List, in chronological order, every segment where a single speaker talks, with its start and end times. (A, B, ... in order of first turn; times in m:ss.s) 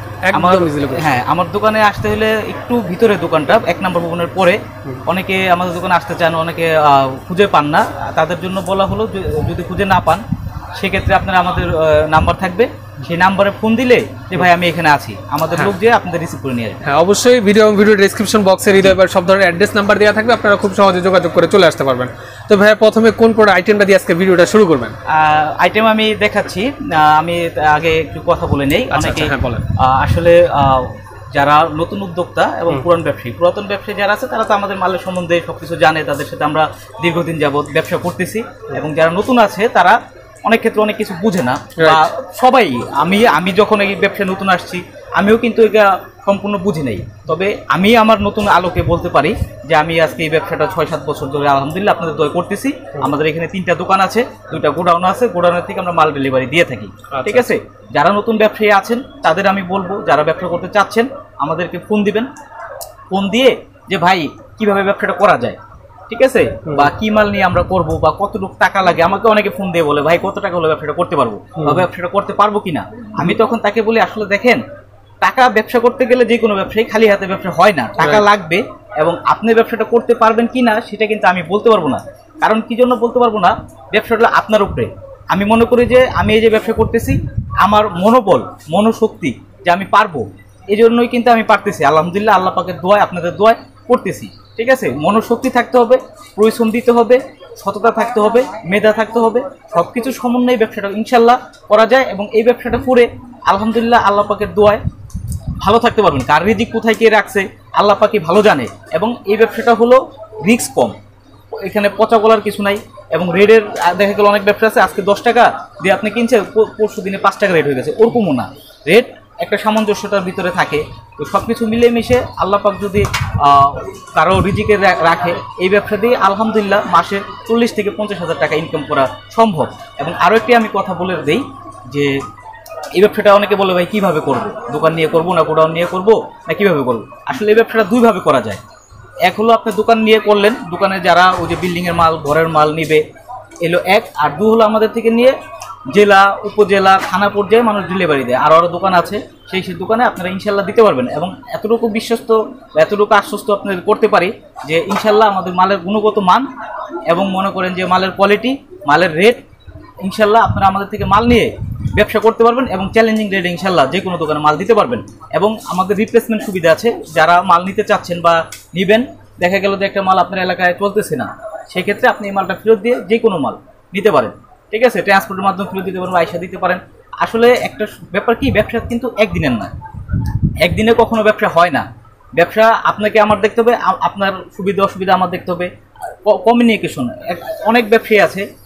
0:00.2-0:01.2 A
0:00.3-0:10.2 B
0:10.8-0:16.8 B
0:16.8-0:24.9 A
0:25.1-1:02.3 B
0:28.9-0:29.6 A
0:41.8-0:42.0 A
0:57.1-0:57.5 A
1:03.1-1:05.6 B
1:06.1-1:14.6 B
1:11.6-1:11.8 A
1:15.2-1:44.8 B
1:18.0-1:18.2 A
1:45.6-1:51.0 B
1:51.6-2:12.2 B
2:12.9-2:18.6 B
2:19.2-2:23.0 B
2:23.6-2:25.4 B
2:25.9-2:36.5 B
2:37.1-2:39.4 B
2:40.0-2:59.7 B
3:00.6-3:05.7 B
3:06.2-3:08.5 B